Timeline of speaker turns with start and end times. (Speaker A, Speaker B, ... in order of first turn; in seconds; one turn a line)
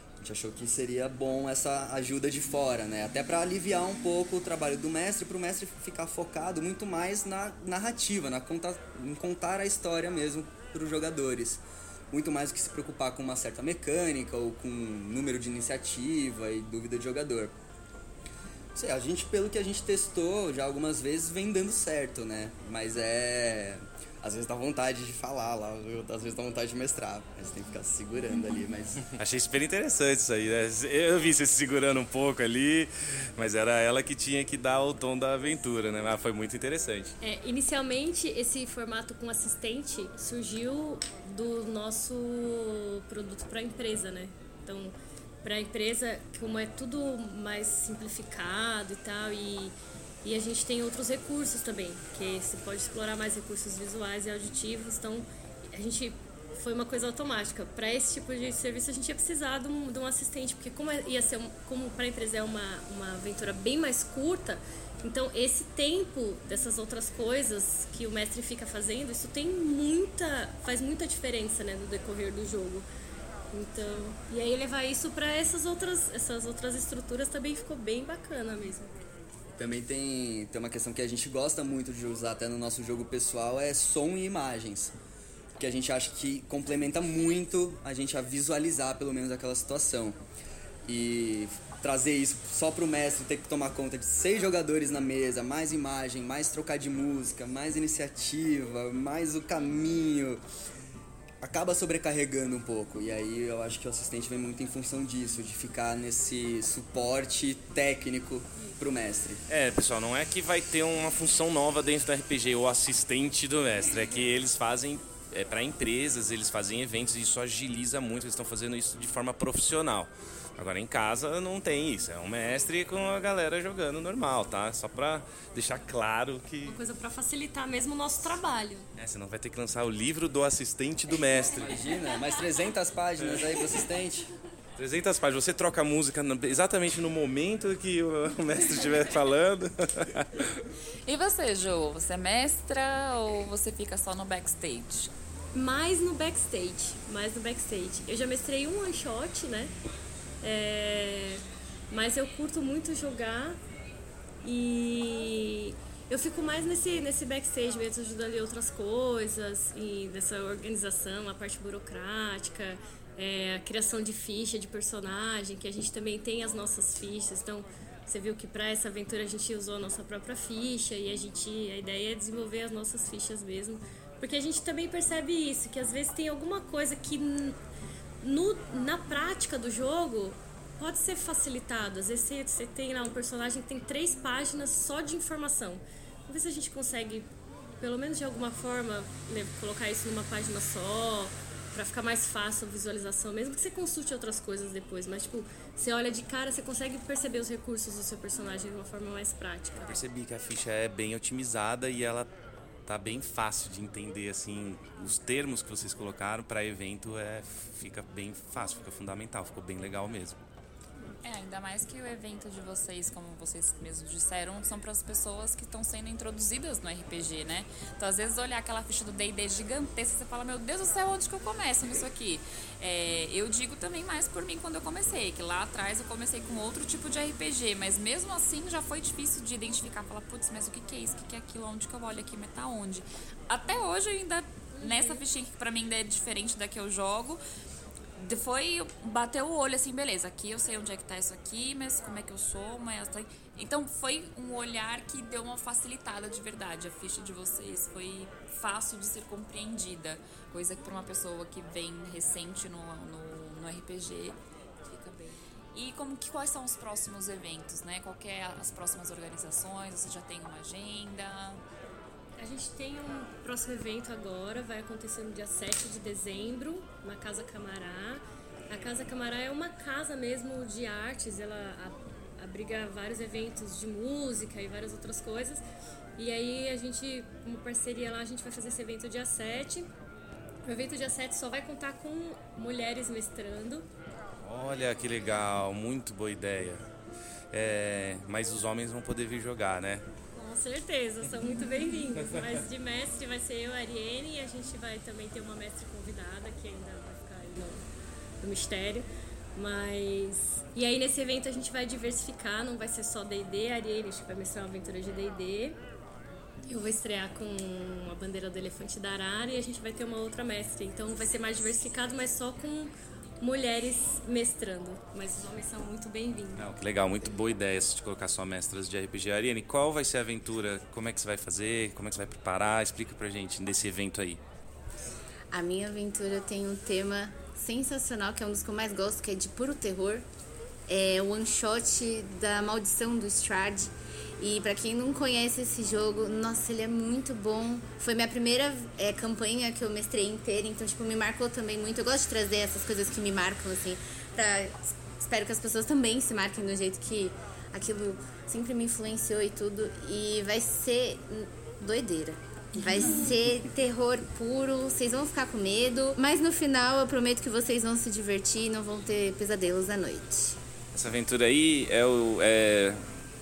Speaker A: 0.2-17.6
Speaker A: 18.8-29.1
Speaker B: 29.2-37.2
Speaker C: 37.2-72.9
Speaker C: 73.5-78.9
Speaker A: 79.6-84.9
Speaker A: 85.6-90.2
Speaker A: 90.8-100.4
Speaker A: 101.4-109.4
Speaker B: 109.5-126.8
Speaker C: 126.6-128.9
Speaker B: 129.0-131.8
Speaker A: 131.5-134.3
Speaker B: 133.3-133.5
Speaker B: 134.8-140.7
Speaker D: 141.1-145.1
Speaker C: 145.5-149.7
Speaker C: 150.4-153.6
Speaker C: 154.4-177.6
Speaker C: 178.2-187.3
Speaker C: 187.8-200.0
Speaker B: 199.8-202.3
Speaker B: 202.9-210.4
Speaker D: 211.2-237.4
Speaker C: 234.8-235.2
Speaker D: 238.2-261.6
Speaker C: 262.4-275.6
Speaker C: 276.2-279.9
Speaker C: 280.6-283.9
Speaker B: 284.4-286.9
Speaker B: 287.5-290.1
Speaker C: 290.3-297.8
Speaker C: 298.4-305.8
Speaker C: 306.7-316.7
Speaker B: 316.6-324.4
Speaker E: 325.5-330.3
Speaker E: 330.9-360.6
Speaker B: 360.9-363.0